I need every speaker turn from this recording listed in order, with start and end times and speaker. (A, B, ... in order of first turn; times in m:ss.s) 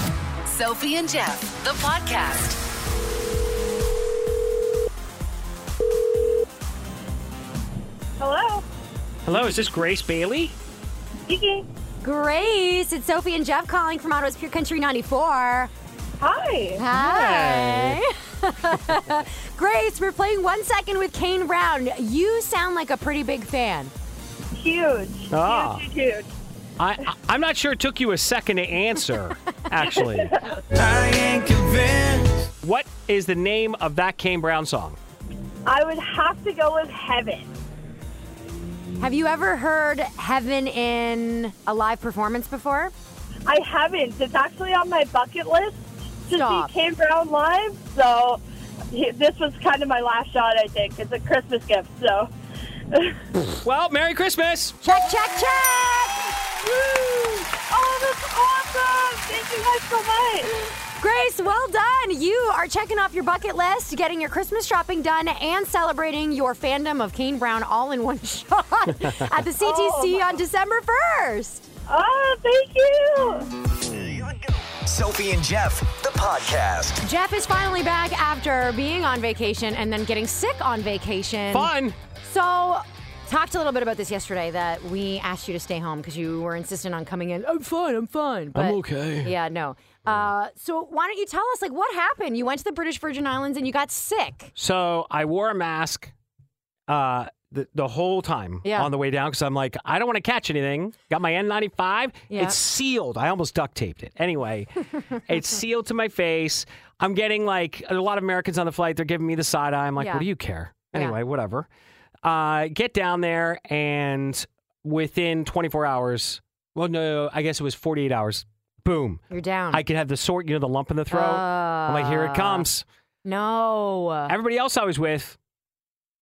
0:00.4-0:02.6 A
0:08.2-0:08.6 B
0:09.3-0:10.6 C
0:11.3-0:11.7 B
0:12.0-0:15.7 D
0:16.2-0:16.8 B
0:16.8-0:23.9 D
0:16.9-0:18.0 C
0:24.6-0:26.3 B
0:25.3-0:25.8 C
0:26.8-0:30.4 C
0:30.3-0:30.8 B
0:32.6-0:35.0 C
0:35.7-0:37.5 B
0:39.0-0:42.9 D
0:43.5-0:52.3 B
0:46.3-0:46.7 D
0:52.9-0:53.2 B
0:53.6-0:54.8 C
0:54.8-0:56.3 D
0:56.6-0:57.0 B
0:57.5-1:00.5 B
1:01.0-1:11.7 D
1:09.6-1:10.3 B
1:11.9-1:13.5 B
1:14.8-1:17.0 E
1:17.0-1:34.5 D
1:21.5-1:22.0 C
1:28.5-1:29.3 C
1:34.6-1:36.1 C
1:36.9-1:51.7 C
1:38.6-1:38.9 D
1:42.3-1:42.6 D
1:50.0-1:50.3 D
1:52.2-2:02.8 C
1:59.3-1:59.8 D
2:01.1-2:02.7 D
2:03.2-2:04.4 D
2:04.3-2:05.4 C